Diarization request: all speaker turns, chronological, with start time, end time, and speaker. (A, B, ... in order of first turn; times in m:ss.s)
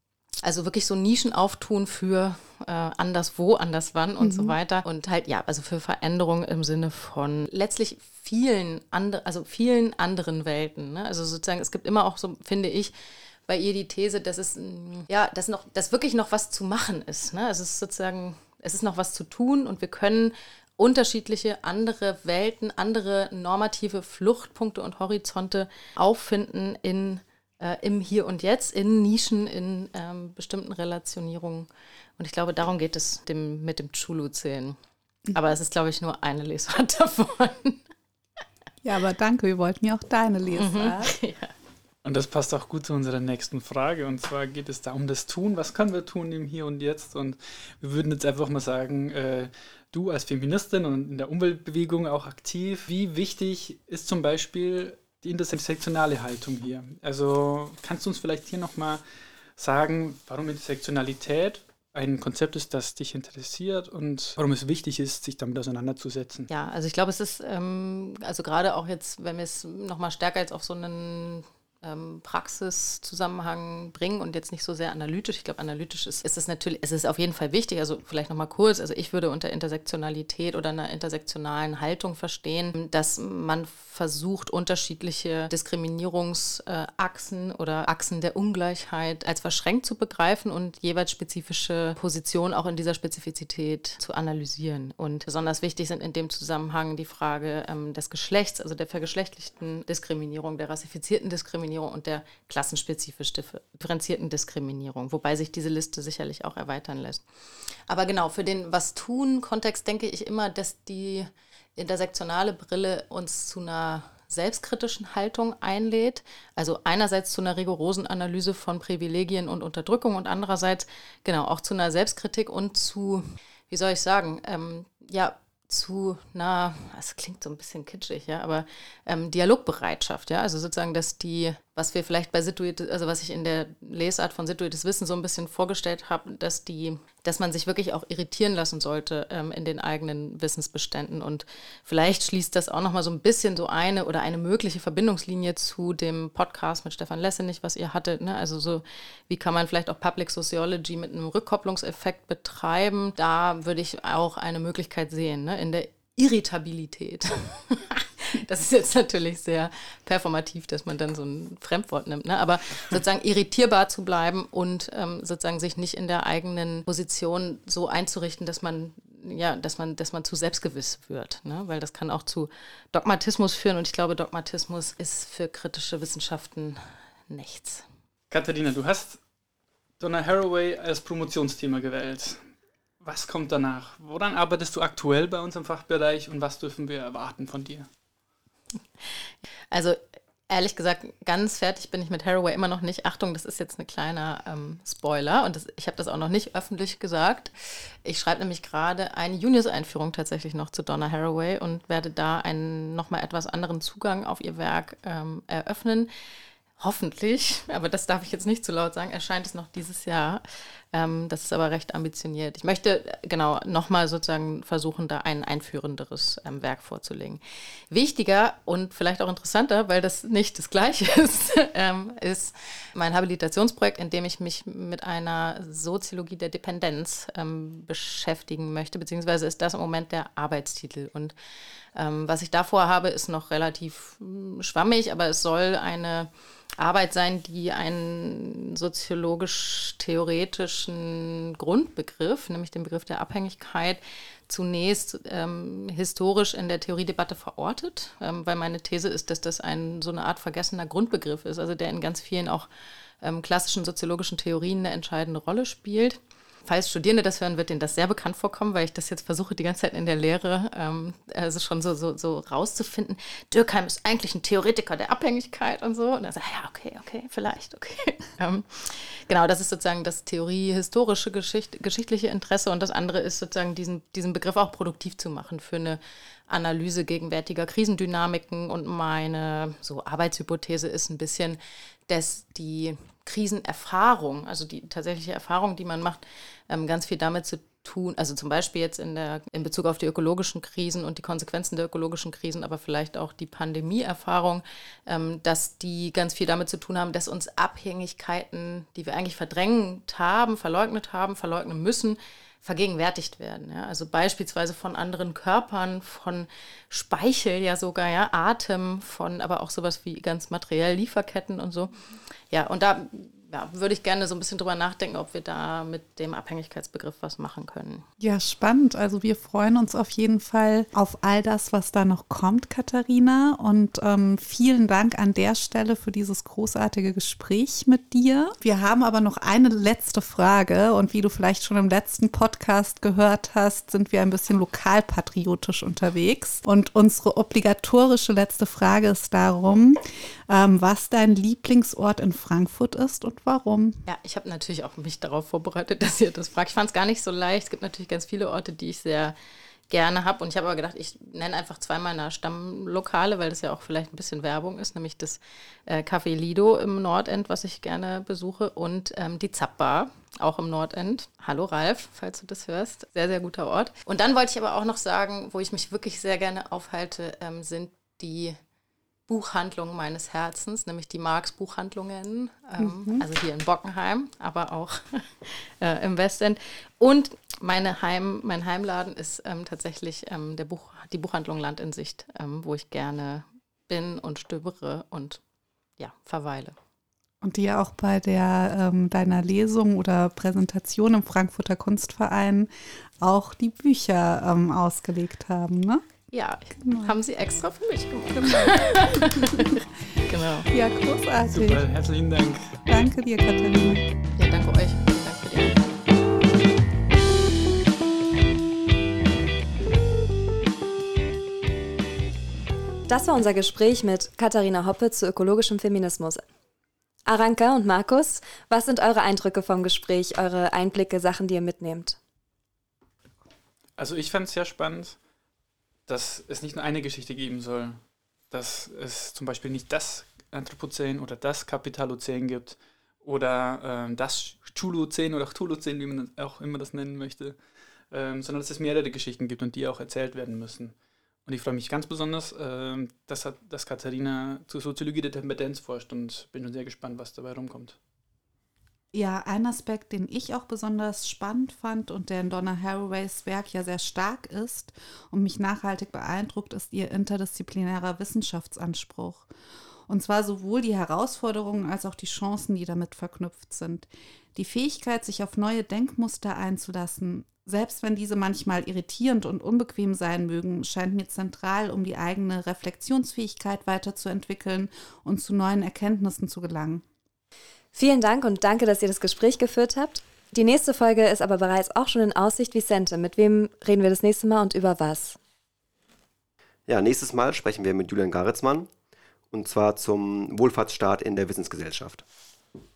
0:00.4-0:12.9 A
0:04.2-0:04.6 B
0:13.5-0:34.8 A
0:35.3-0:37.8 A
0:38.8-0:41.1 B
0:40.6-0:41.5 A
0:42.0-0:59.0 C
0:59.6-1:06.5 C
1:06.5-1:47.2 A
1:47.9-2:57.8 A
2:58.3-2:59.2 C
3:00.0-3:02.4 C
3:03.0-3:07.9 C
3:09.7-3:17.5 A
3:18.0-3:26.1 A
3:26.8-3:51.3 A
3:51.9-4:12.7 A
4:13.2-5:11.9 A
5:12.5-5:18.0 A
5:18.2-5:44.0 B
5:44.0-5:49.3 A
5:49.9-6:08.6 A
6:09.3-6:25.4 A
6:12.8-6:13.2 B
6:26.0-6:26.7 A
6:27.4-6:32.7 B
6:33.2-6:36.0 B
6:36.3-6:40.7 A
6:36.8-6:37.1 B
6:38.3-6:39.8 B
6:40.7-6:41.8 B
6:41.5-6:42.8 C
6:42.9-6:44.1 B
6:44.4-6:45.8 A
6:53.1-6:56.4 D
6:57.2-7:02.2 D
7:04.0-7:05.2 C
7:06.1-7:08.0 C
7:08.5-7:17.6 C
7:18.1-7:20.9 C
7:21.4-7:28.0 C
7:29.1-7:39.5 B
7:40.1-7:57.0 B
7:57.9-8:05.4 D
8:06.9-8:08.9 E
8:09.5-8:12.2 E